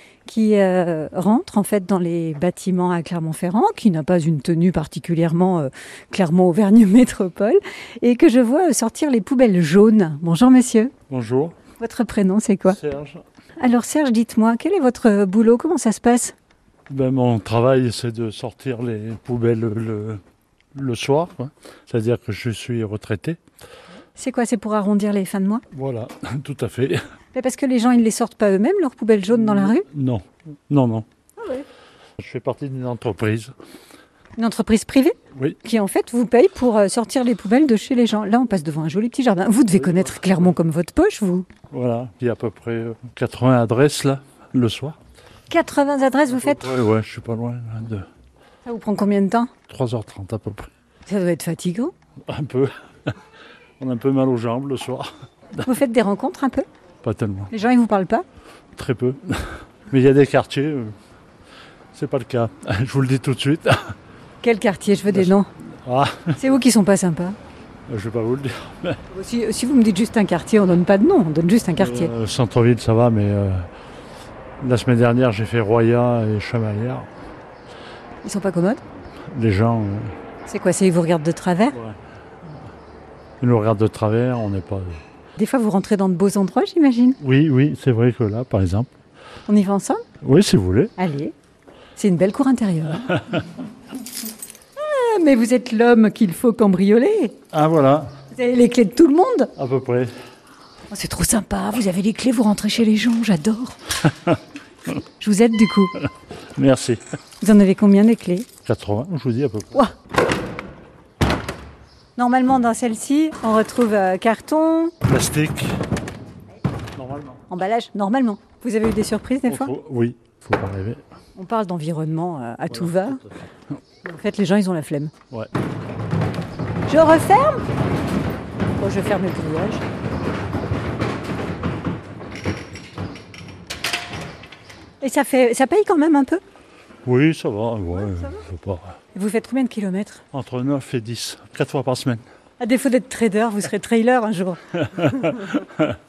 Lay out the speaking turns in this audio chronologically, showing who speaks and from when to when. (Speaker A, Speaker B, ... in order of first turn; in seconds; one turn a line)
Speaker A: 0.2-10.9
Speaker B: 11.1-11.6
Speaker A: 11.8-12.8
Speaker B: 12.7-13.2
Speaker A: 13.6-16.3
Speaker B: 16.9-20.2
Speaker B: 20.7-23.4
Speaker A: 24.2-25.6
Speaker B: 25.7-27.0
Speaker A: 27.3-29.8
Speaker B: 29.3-31.1
Speaker A: 31.4-31.7
Speaker B: 32.2-33.5
Speaker A: 34.4-41.5
Speaker B: 39.7-40.5
Speaker B: 41.7-45.0
Speaker A: 45.5-46.7
Speaker B: 46.3-48.1
Speaker A: 48.7-49.5
Speaker B: 49.7-50.7
Speaker A: 51.1-51.9
Speaker B: 52.3-53.1
Speaker B: 53.8-55.1
Speaker A: 55.6-56.7
Speaker B: 57.0-57.5
Speaker A: 57.5-58.2
Speaker B: 58.8-61.0
Speaker B: 61.9-64.0
Speaker A: 64.4-65.5
Speaker B: 65.8-66.4
Speaker A: 66.4-67.4
Speaker B: 67.9-69.0
Speaker A: 69.1-72.1
Speaker B: 71.8-73.7
Speaker B: 74.6-77.1
Speaker A: 78.2-78.8
Speaker B: 79.3-80.2
Speaker A: 80.5-81.8
Speaker B: 81.7-82.0
Speaker B: 83.4-85.0
Speaker A: 85.4-87.2
Speaker B: 87.2-88.9
Speaker A: 89.5-90.0
Speaker B: 90.2-91.0
Speaker A: 91.0-91.3
Speaker A: 92.0-93.4
Speaker A: 94.8-97.4
Speaker B: 97.5-98.1
Speaker A: 98.3-99.5
Speaker B: 99.6-100.1
Speaker A: 100.9-104.0
Speaker A: 105.2-106.0
Speaker B: 106.5-107.0
Speaker A: 107.4-108.5
Speaker B: 108.7-109.8
Speaker A: 112.2-115.0
Speaker B: 115.0-115.8
Speaker B: 117.0-117.4
Speaker A: 117.5-119.7
Speaker B: 119.5-121.0
Speaker A: 121.4-123.2
Speaker B: 122.7-123.3
Speaker A: 124.0-125.1
Speaker A: 126.9-127.6
Speaker A: 128.8-129.8
Speaker A: 135.0-136.4
Speaker B: 137.1-139.0
Speaker A: 138.0-138.4
Speaker A: 139.1-140.2
Speaker B: 140.3-142.2
Speaker A: 142.6-145.7
Speaker B: 144.9-145.8